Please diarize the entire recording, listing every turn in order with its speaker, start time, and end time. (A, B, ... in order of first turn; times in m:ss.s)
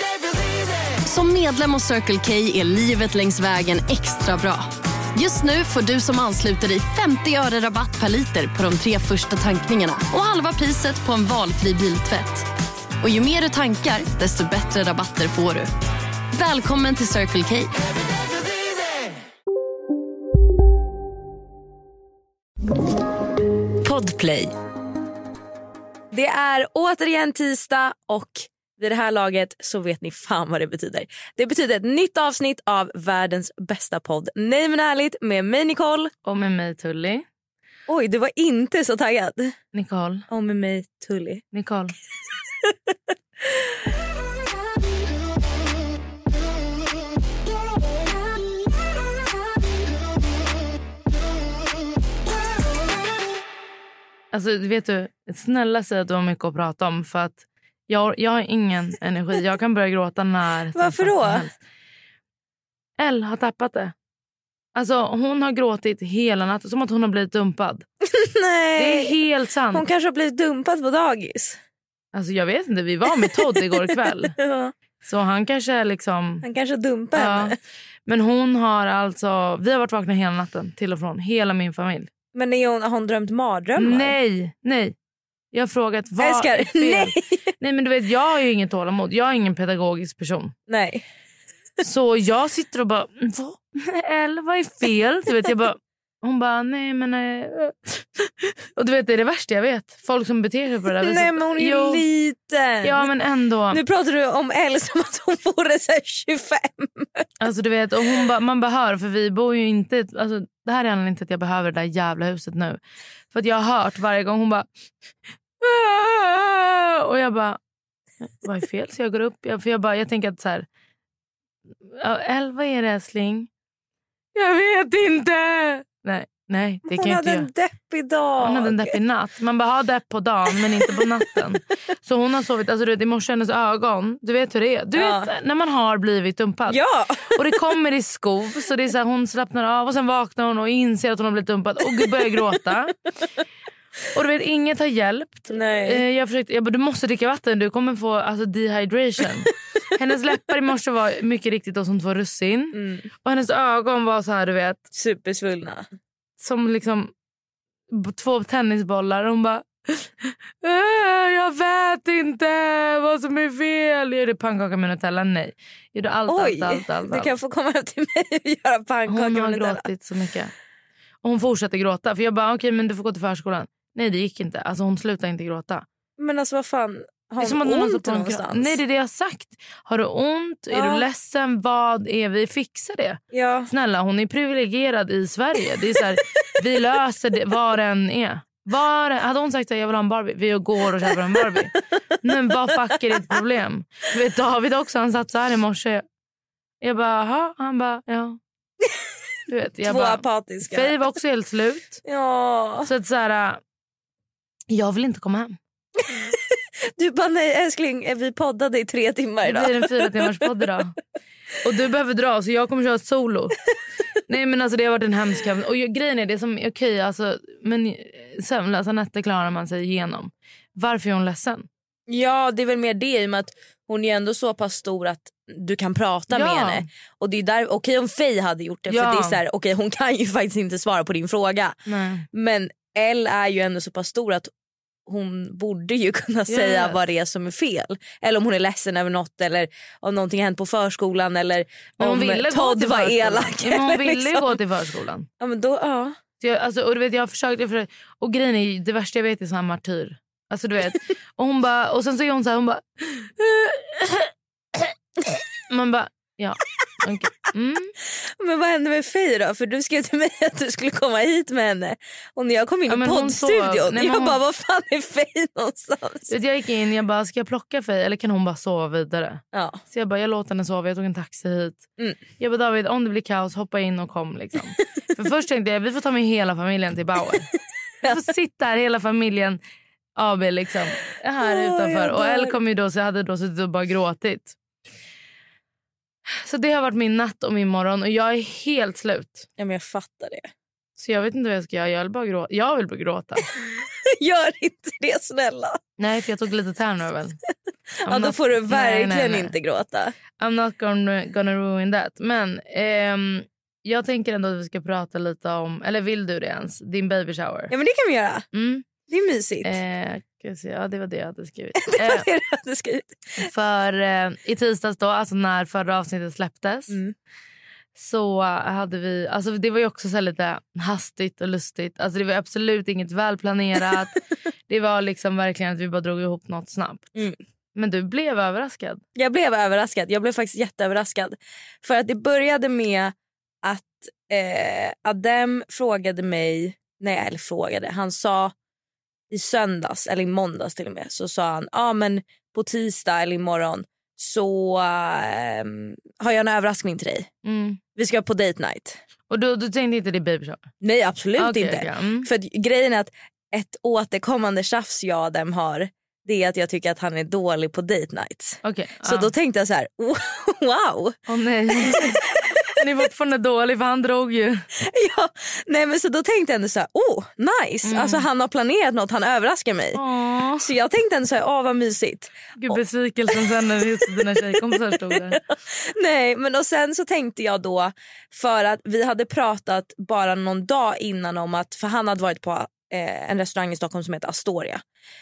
0:01.0-0:12.5 A
0:13.0-0:15.7 A
0:16.3-0:17.7 A
0:23.8-0:24.5 A
0:26.1-0:36.1 B
0:36.3-0:37.2 C
0:37.9-0:39.5 B
0:39.7-0:40.3 C
0:40.3-0:41.4 B
0:41.5-0:41.9 C
0:42.6-0:42.9 B
0:54.3-1:01.6 C
1:00.7-1:01.5 B
1:03.0-1:03.9 C
1:04.8-1:07.8 C
1:08.1-1:09.1 B
1:08.8-1:09.8 C
1:09.7-1:11.6 B
1:12.1-1:14.4 C
1:13.2-1:13.8 B
1:14.4-1:14.7 B
1:15.0-1:16.4 C
1:16.4-1:17.6 B
1:17.1-1:17.6 C
1:18.1-1:22.1 C
1:22.3-1:24.1 B
1:23.8-1:24.9 C
1:25.5-1:30.5 C
1:26.2-1:27.4 B
1:30.7-1:31.0 B
1:31.8-1:42.0 C
1:41.0-1:43.1 B
1:42.8-1:43.8 C
1:43.7-1:47.2 B
1:47.4-1:52.8 C
1:53.3-1:54.7 C
1:55.6-1:57.6 C
1:58.3-2:00.7 C
2:01.9-2:03.5 C
2:04.3-2:07.5 C
2:06.9-2:09.0 B
2:08.4-2:16.8 C
2:15.0-2:15.3 B
2:16.7-2:17.4 B
2:17.3-2:23.0 C
2:24.1-2:34.8 C
2:25.5-2:26.0 B
2:32.8-2:33.0 B
2:35.0-2:35.9 B
2:36.4-2:37.1 C
2:37.9-2:47.3 C
2:46.3-2:49.9 B
2:49.1-2:50.5 C
2:51.2-2:55.8 C
2:56.2-2:58.8 B
2:57.4-3:16.0 C
3:00.7-3:01.1 B
3:03.3-3:03.7 B
3:16.8-3:18.4 C
3:19.5-3:22.0 C
3:19.8-3:21.0 B
3:22.1-3:22.9 B
3:22.9-3:23.6 C
3:24.7-3:25.6 C
3:26.0-3:30.4 B
3:29.4-3:31.0 C
3:31.6-3:33.6 C
3:34.3-3:41.7 C
3:42.1-3:51.8 B
3:46.3-3:46.8 C
3:48.9-3:49.4 C
3:51.9-3:52.3 C
3:52.3-3:54.5 B
3:55.1-4:04.6 B
3:56.5-3:57.0 C
4:02.0-4:05.3 C
4:05.4-4:06.2 B
4:06.4-4:14.9 C
4:15.7-4:17.9 C
4:18.4-4:26.4 B
4:22.9-4:24.4 C
4:26.3-4:31.8 C
4:29.5-4:29.8 B
4:32.4-4:37.5 C
4:38.0-4:39.6 C
4:40.2-4:44.5 C
4:41.4-4:42.6 B
4:46.3-4:49.5 C
4:49.6-4:50.5 B
4:51.0-4:53.5 C
4:54.1-4:55.8 B
4:56.0-4:57.4 C
4:58.0-4:59.5 C
4:58.0-5:00.1 B
5:00.4-5:07.7 C
5:07.7-5:08.4 B
5:08.5-5:08.8 C
5:09.1-5:09.8 B
5:09.6-5:12.3 C
5:11.8-5:13.5 B
5:13.4-5:17.0 C
5:16.9-5:17.1 B
5:18.0-5:27.1 C
5:27.8-5:29.0 C
5:29.2-5:38.5 B
5:39.3-5:47.3 B
5:47.4-5:47.8 C
5:48.0-5:49.0 B
5:49.3-5:50.7 C
5:50.8-6:01.2 B
5:51.4-5:52.3 C
5:58.6-5:59.3 C
6:01.3-6:02.2 C
6:01.8-6:02.2 B
6:02.8-6:04.7 C
6:04.8-6:10.0 B
6:07.8-6:08.2 C
6:09.9-6:10.7 C
6:10.6-6:12.8 B
6:12.6-6:15.4 C
6:14.5-6:24.8 B